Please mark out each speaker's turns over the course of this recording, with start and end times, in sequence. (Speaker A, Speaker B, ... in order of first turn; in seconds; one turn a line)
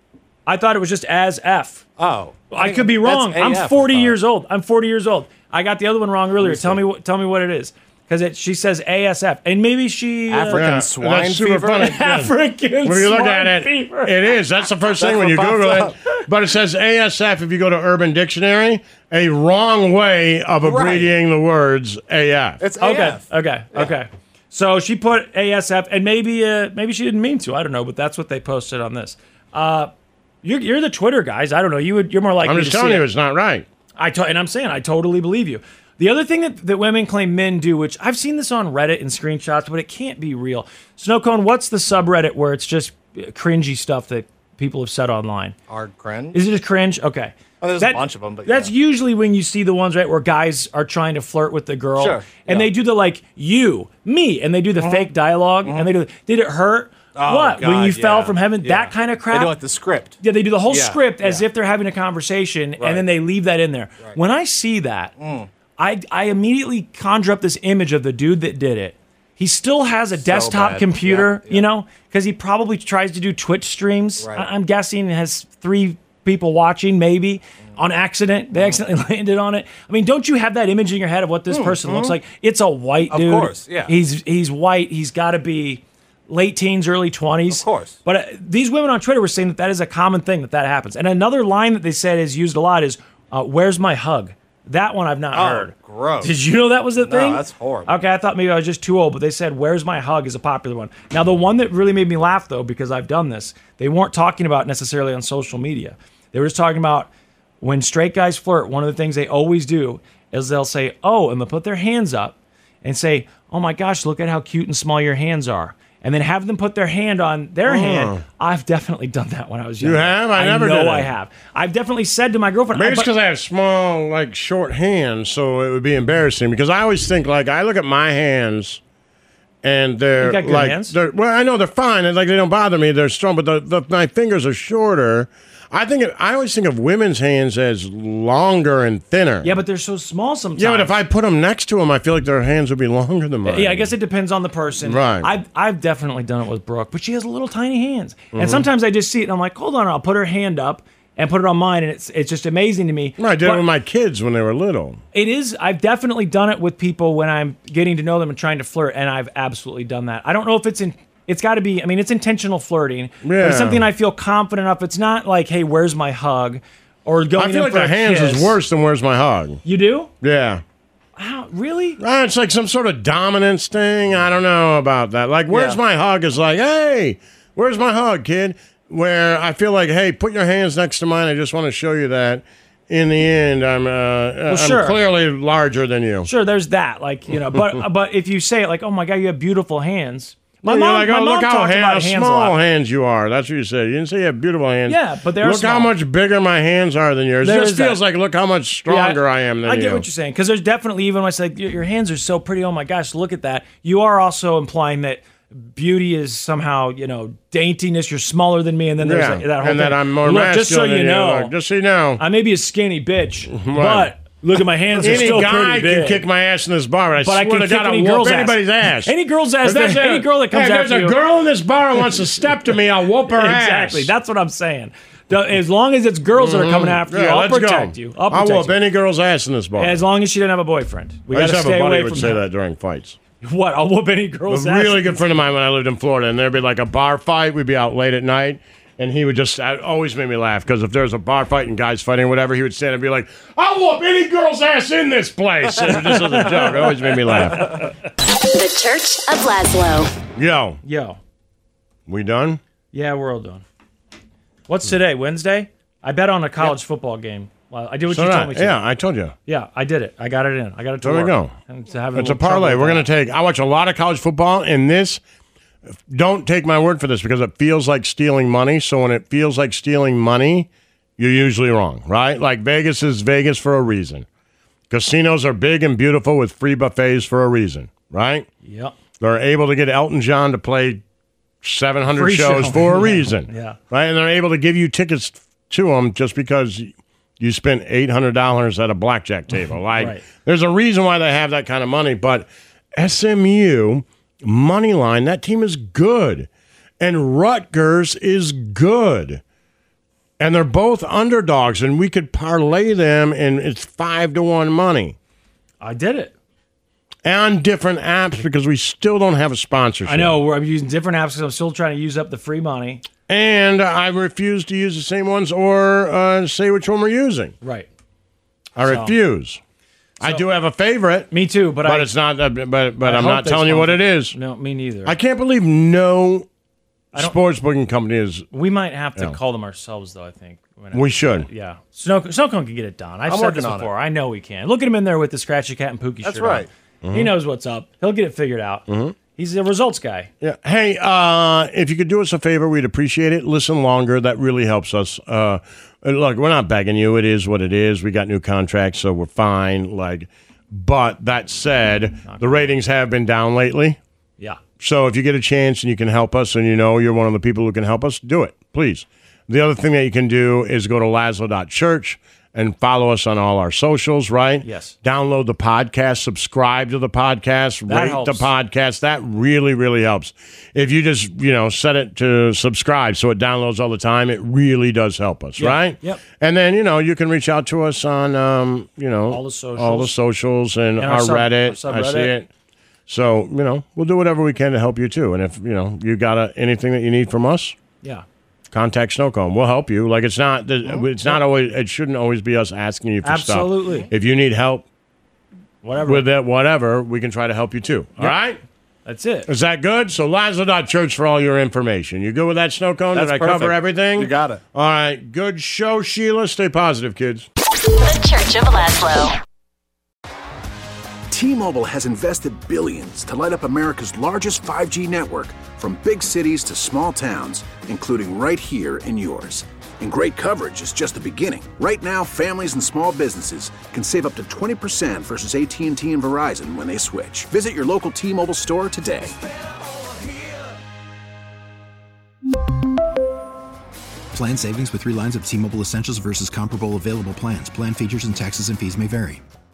Speaker A: 0.5-1.8
Speaker B: 2.0-4.2
Speaker A: 2.5-10.8
Speaker B: 6.4-6.8
Speaker B: 10.3-11.9
Speaker C: 10.5-22.6
Speaker A: 11.6-14.1
Speaker B: 15.0-15.9
Speaker B: 20.6-21.1
Speaker B: 22.6-23.9
Speaker A: 22.8-29.9
Speaker A: 30.4-33.1
Speaker C: 32.4-33.7
Speaker A: 34.0-45.5
Speaker B: 45.7-46.4
Speaker A: 46.3-59.5
Speaker B: 47.6-48.7
Speaker B: 52.0-52.7
Speaker B: 54.8-55.1
Speaker B: 55.6-55.9
Speaker B: 57.1-60.2
Speaker A: 60.2-65.1
Speaker B: 60.7-61.5
Speaker B: 62.8-63.1
Speaker B: 65.2-65.5
Speaker A: 65.8-107.1
Speaker B: 70.1-71.7
Speaker B: 74.2-74.5
Speaker B: 81.5-82.1
Speaker B: 83.0-83.9
Speaker B: 87.5-88.0
Speaker B: 95.3-96.3
Speaker B: 97.0-98.0
Speaker A: 107.6-123.1
Speaker C: 117.7-118.2
Speaker C: 119.8-121.1
Speaker C: 122.7-128.8
Speaker C: 129.6-139.6
Speaker A: 130.2-130.9
Speaker A: 139.4-141.0
Speaker C: 140.6-143.9
Speaker A: 143.4-153.7
Speaker C: 144.8-145.3
Speaker C: 148.3-148.7
Speaker C: 153.2-155.0
Speaker A: 155.1-168.6
Speaker C: 163.2-163.8
Speaker C: 167.4-169.6
Speaker A: 169.6-170.1
Speaker C: 170.2-170.6
Speaker A: 171.2-172.0
Speaker C: 172.0-186.3
Speaker A: 175.5-175.8
Speaker A: 184.5-185.0
Speaker A: 186.2-192.6
Speaker C: 190.6-200.1
Speaker A: 194.9-195.9
Speaker A: 197.4-198.0
Speaker A: 198.9-211.5
Speaker C: 209.0-212.2
Speaker A: 212.2-216.2
Speaker C: 213.5-214.1
Speaker C: 215.0-224.1
Speaker A: 217.2-221.2
Speaker A: 223.2-228.7
Speaker C: 226.3-230.0
Speaker A: 229.8-232.4
Speaker C: 231.3-233.2
Speaker A: 233.4-235.2
Speaker C: 234.5-247.8
Speaker A: 245.8-247.9
Speaker D: 248.5-250.1
Speaker C: 250.3-250.8
Speaker A: 250.8-251.2
Speaker C: 252.1-252.6
Speaker A: 252.9-253.6
Speaker A: 254.7-258.8
Speaker C: 258.1-259.3
Speaker A: 259.5-263.1
Speaker C: 261.0-261.5
Speaker C: 262.1-265.2
Speaker C: 265.9-274.3
Speaker C: 274.9-278.5
Speaker A: 278.6-278.9
Speaker C: 279.2-281.0
Speaker C: 281.6-296.5
Speaker A: 282.1-283.8
Speaker A: 289.9-290.2
Speaker C: 297.0-299.4
Speaker C: 300.4-305.1
Speaker A: 305.8-306.3
Speaker C: 307.2-310.3
Speaker A: 310.1-313.0
Speaker C: 313.3-317.5
Speaker A: 317.6-317.9
Speaker C: 318.8-319.6
Speaker A: 318.8-319.1
Speaker C: 320.2-321.3
Speaker A: 321.3-322.1
Speaker C: 321.8-324.4
Speaker A: 323.0-325.1
Speaker C: 325.0-326.5
Speaker C: 327.1-328.5
Speaker A: 328.5-340.3
Speaker C: 330.9-331.5
Speaker B: 333.3-333.9
Speaker B: 336.2-336.7
Speaker C: 337.0-337.3
Speaker C: 338.9-339.1
Speaker C: 340.4-354.0
Speaker A: 352.2-352.7
Speaker C: 354.8-382.5
Speaker A: 364.6-364.9
Speaker A: 367.9-368.5
Speaker A: 375.6-376.2
Speaker A: 379.3-380.1
Speaker A: 381.0-382.3
Speaker C: 383.1-387.8
Speaker C: 388.7-394.9
Speaker A: 390.9-391.4
Speaker A: 393.2-394.1
Speaker A: 395.8-396.2
Speaker C: 396.0-398.6
Speaker A: 399.0-399.5
Speaker C: 399.5-407.5
Speaker B: 403.1-404.6
Speaker D: 408.0-409.3
Speaker E: 411.3-429.3
Speaker F: 434.3-439.4